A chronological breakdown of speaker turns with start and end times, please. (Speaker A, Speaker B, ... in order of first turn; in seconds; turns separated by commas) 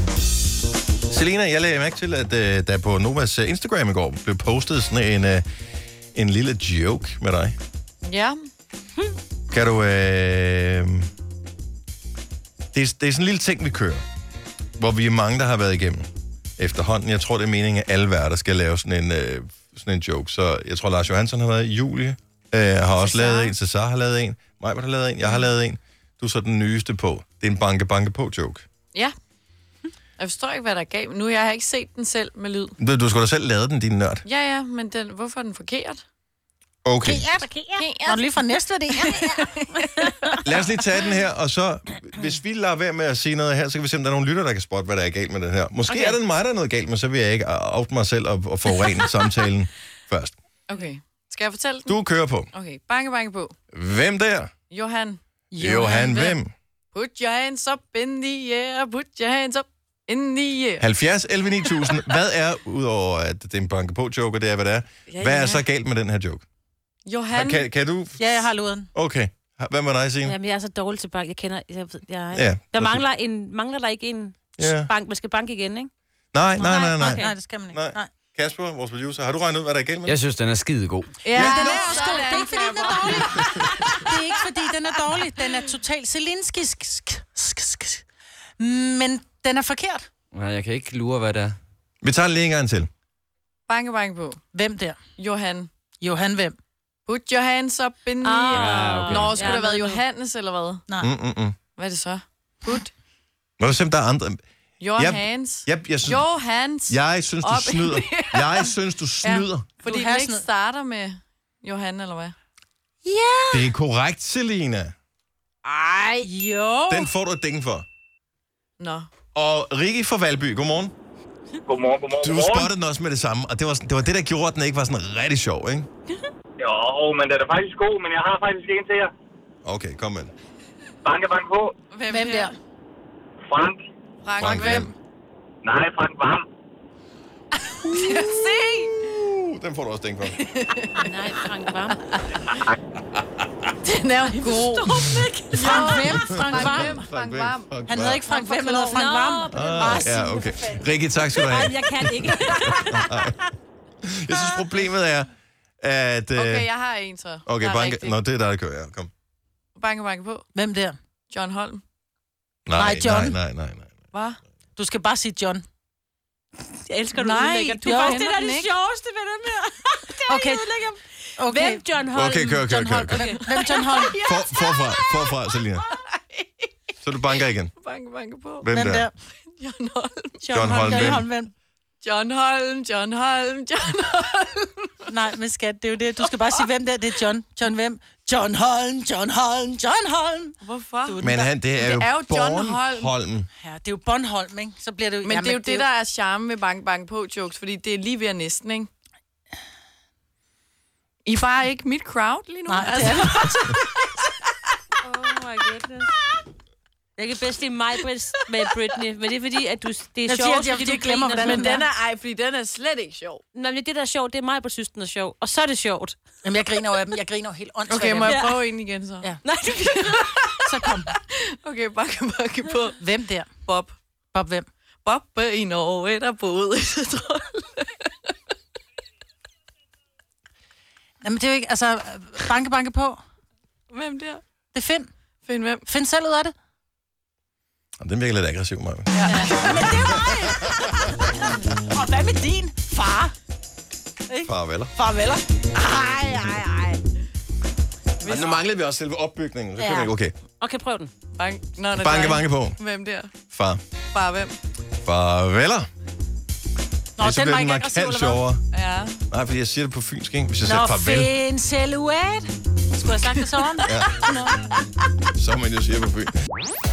Speaker A: 1.1-5.4, Speaker A: 6.2-7.5, Speaker B: 8.1-8.4, Speaker A: 9.5-11.1, Speaker A: 12.7-14.0, Speaker A: 14.8-28.6, Speaker B: 23.0-23.6, Speaker B: 30.2-32.8, Speaker A: 32.8-34.2, Speaker B: 34.3-36.0, Speaker A: 36.8-37.3, Speaker C: 37.1-39.5, Speaker B: 37.7-38.3, Speaker B: 38.9-40.2, Speaker A: 40.4-50.4, Speaker B: 45.9-46.2, Speaker B: 50.7-52.0, Speaker A: 51.9-52.5, Speaker B: 52.5-53.5, Speaker A: 53.7-54.5, Speaker B: 54.7-55.2, Speaker C: 55.5-56.4, Speaker A: 55.5-56.5, Speaker B: 56.9-60.8, Speaker A: 60.8-66.5, Speaker B: 65.1-65.6, Speaker B: 67.0-67.7, Speaker A: 67.3-68.3, Speaker C: 68.2-68.9, Speaker A: 69.0-70.3, Speaker D: 70.2-75.9, Speaker A: 72.3-73.0, Speaker A: 74.6-74.9, Speaker A: 76.3-80.2, Speaker D: 76.6-77.3, Speaker C: 76.7-78.1, Speaker E: 80.1-81.5, Speaker B: 81.2-84.5, Speaker A: 81.3-82.2, Speaker C: 81.5-88.0, Speaker A: 83.2-83.6, Speaker C: 88.6-90.1, Speaker E: 90.3-91.6, Speaker A: 92.0-92.9, Speaker B: 93.7-94.4, Speaker C: 94.5-95.0, Speaker B: 95.2-95.7, Speaker C: 96.0-96.6, Speaker B: 97.1-100.8, Speaker D: 98.2-100.0, Speaker E: 98.6-99.5, Speaker A: 101.0-101.6, Speaker B: 101.8-102.9, Speaker A: 103.6-104.4, Speaker B: 104.8-108.7, Speaker A: 105.0-106.2, Speaker A: 106.9-109.7, Speaker C: 109.2-110.4, Speaker B: 109.3-112.3, Speaker C: 113.0-113.7, Speaker A: 113.5-114.9, Speaker D: 115.7-116.3, Speaker C: 116.2-117.1, Speaker A: 116.9-117.9, Speaker B: 118.8-119.1, Speaker A: 119.3-120.9, Speaker F: 121.7-122.7, Speaker A: 122.2-125.9, Speaker F: 126.6-129.1, Speaker A: 129.6-130.3, Speaker F: 131.0-131.8, Speaker B: 131.9-132.6, Speaker C: 132.1-132.5, Speaker F: 133.5-133.8, Speaker B: 134.2-134.9, Speaker A: 134.4-134.9, Speaker F: 135.6-136.4, Speaker B: 137.7-139.0, Speaker A: 137.8-140.4, Speaker B: 140.3-141.1, Speaker D: 141.0-142.2, Speaker B: 143.8-148.7, Speaker D: 144.3-146.9, Speaker C: 145.6-147.0, Speaker A: 146.1-148.2, Speaker C: 147.9-150.8, Speaker D: 148.7-150.1, Speaker A: 149.5-153.4, Speaker D: 151.3-153.4, Speaker A: 154.0-156.7, Speaker B: 156.3-158.2, Speaker A: 157.5-159.1, Speaker B: 159.8-160.5, Speaker C: 160.6-161.0, Speaker B: 161.3-161.8, Speaker A: 162.7-163.9, Speaker C: 162.7-163.4, Speaker B: 164.1-164.4, Speaker C: 164.8-165.7, Speaker D: 166.6-173.8, Speaker B: 167.1-168.7, Speaker C: 170.3-170.7, Speaker C: 171.4-171.8, Speaker A: 172.1-173.3, Speaker C: 172.7-174.2, Speaker B: 173.3-176.7, Speaker A: 174.0-175.9, Speaker A: 177.0-177.7, Speaker B: 177.3-178.8, Speaker A: 178.6-179.1, Speaker C: 178.7-179.1, Speaker B: 179.6-180.6, Speaker C: 180.4-181.5, Speaker A: 180.5-181.2, Speaker B: 182.0-185.1, Speaker C: 185.1-191.5, Speaker B: 186.2-186.7, Speaker B: 190.6-193.1, Speaker A: 191.2-193.5, Speaker C: 193.6-195.9, Speaker B: 195.2-198.9, Speaker B: 201.2-204.2, Speaker C: 202.7-203.7, Speaker D: 205.0-206.1, Speaker D: 207.2-211.8, Speaker C: 210.3-211.8, Speaker B: 211.3-213.4, Speaker D: 213.5-216.2, Speaker C: 216.4-218.5, Speaker B: 217.9-224.0, Speaker D: 218.2-218.6, Speaker D: 219.4-220.5, Speaker C: 220.7-221.1, Speaker C: 223.0-223.5, Speaker C: 224.3-224.7, Speaker B: 225.1-228.3, Speaker C: 231.2-233.2, Speaker B: 233.9-234.4, Speaker C: 234.7-235.1, Speaker B: 235.4-235.9, Speaker C: 235.8-236.6, Speaker A: 238.0-239.2, Speaker B: 239.1-239.9, Speaker C: 239.2-243.3, Speaker A: 239.8-240.1, Speaker C: 244.3-246.6, Speaker A: 244.5-244.9, Speaker D: 246.2-247.0, Speaker B: 248.2-248.6, Speaker A: 248.2-250.3, Speaker C: 249.8-250.1, Speaker D: 250.6-251.1, Speaker B: 251.3-253.3, Speaker A: 251.9-252.8, Speaker A: 253.5-253.8, Speaker B: 254.1-254.6, Speaker A: 255.0-255.9, Speaker C: 257.2-258.4, Speaker A: 257.2-258.6, Speaker B: 258.7-259.2, Speaker A: 259.3-261.3, Speaker C: 260.7-264.5, Speaker A: 263.9-264.3, Speaker B: 264.1-264.5, Speaker A: 265.4-266.4